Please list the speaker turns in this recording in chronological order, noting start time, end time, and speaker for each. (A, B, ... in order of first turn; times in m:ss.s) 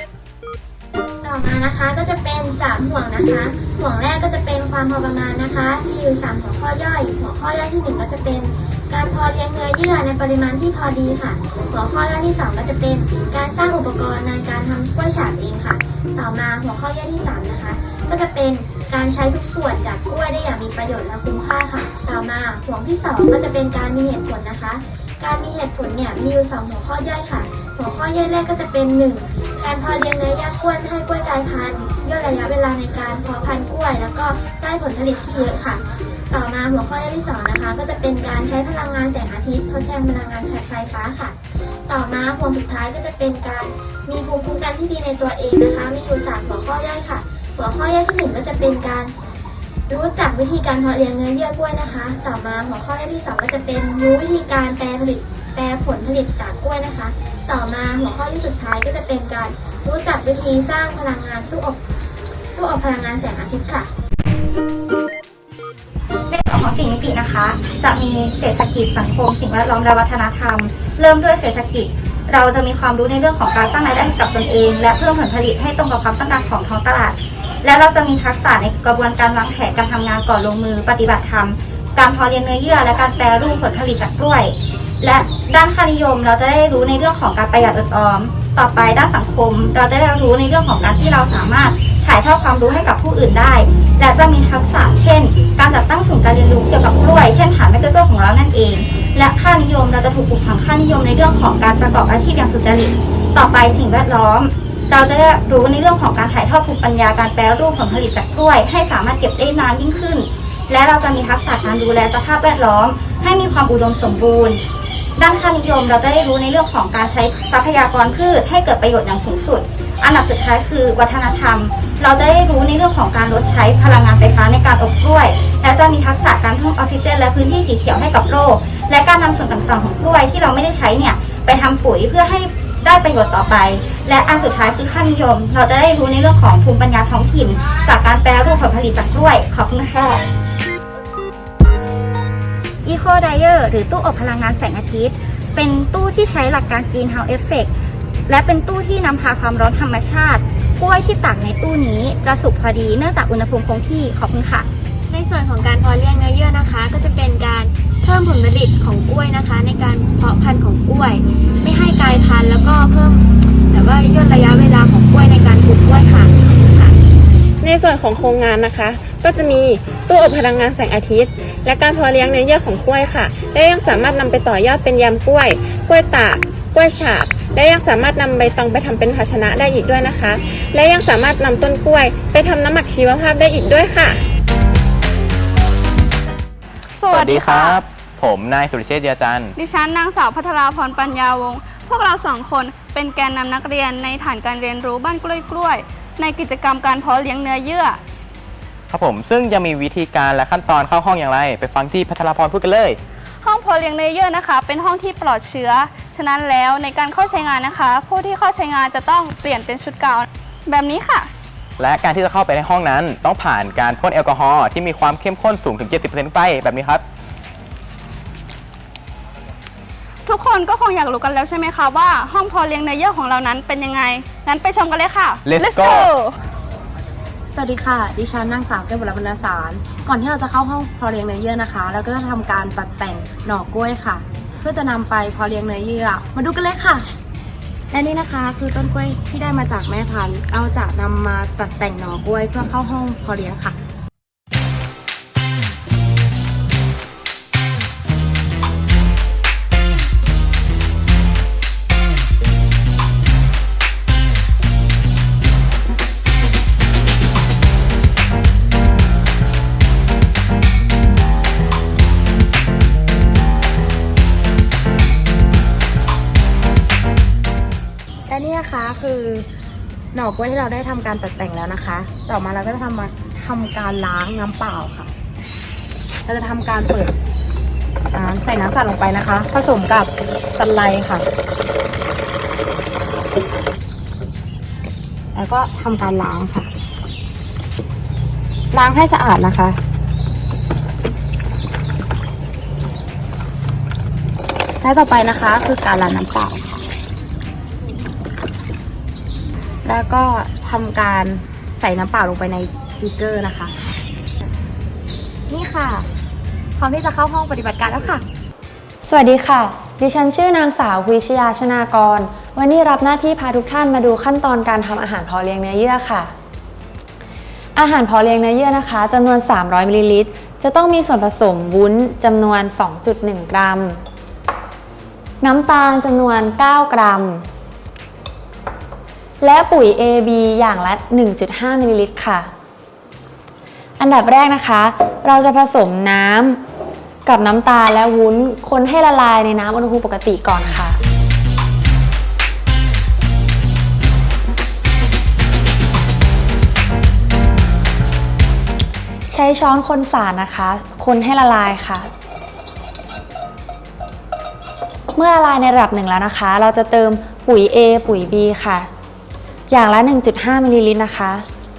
0:01.2-0:41.4 A
0:41.9-0:49.1 A
0:49.9-1:01.8 A
1:02.5-1:03.9 A
1:06.3-1:54.6 B
1:55.2-2:20.2 B
2:22.8-2:27.7 B
2:28.3-2:34.7 B
2:35.1-2:47.0 A
2:47.6-3:04.2 C
3:06.9-3:07.8 D
3:07.1-3:09.5 E
3:09.6-3:18.0 D
3:18.9-3:23.0 E
3:23.4-3:31.3 D
3:31.8-3:37.0 E
3:40.2-3:46.3 D
3:45.4-3:46.1 E
3:47.5-3:57.1 F
3:57.9-4:03.8 F
4:28.3-4:29.5 F
4:30.1-4:35.1 F
4:36.2-4:37.1 F
4:38.1-4:41.3 F
4:45.3-4:46.7 F
4:48.7-4:49.8 F
4:54.8-4:56.8 F
4:59.8-5:03.7 F
5:05.5-5:06.1 F
5:06.8-5:08.2 F
5:09.0-5:16.3 G
5:17.7-5:24.0 G
5:25.4-5:27.5 G
5:29.4-5:32.5 G
5:34.0-5:36.6 G
5:37.2-5:41.0 G
5:49.3-5:52.1 G
5:55.1-5:58.9 G
5:59.7-6:01.5 G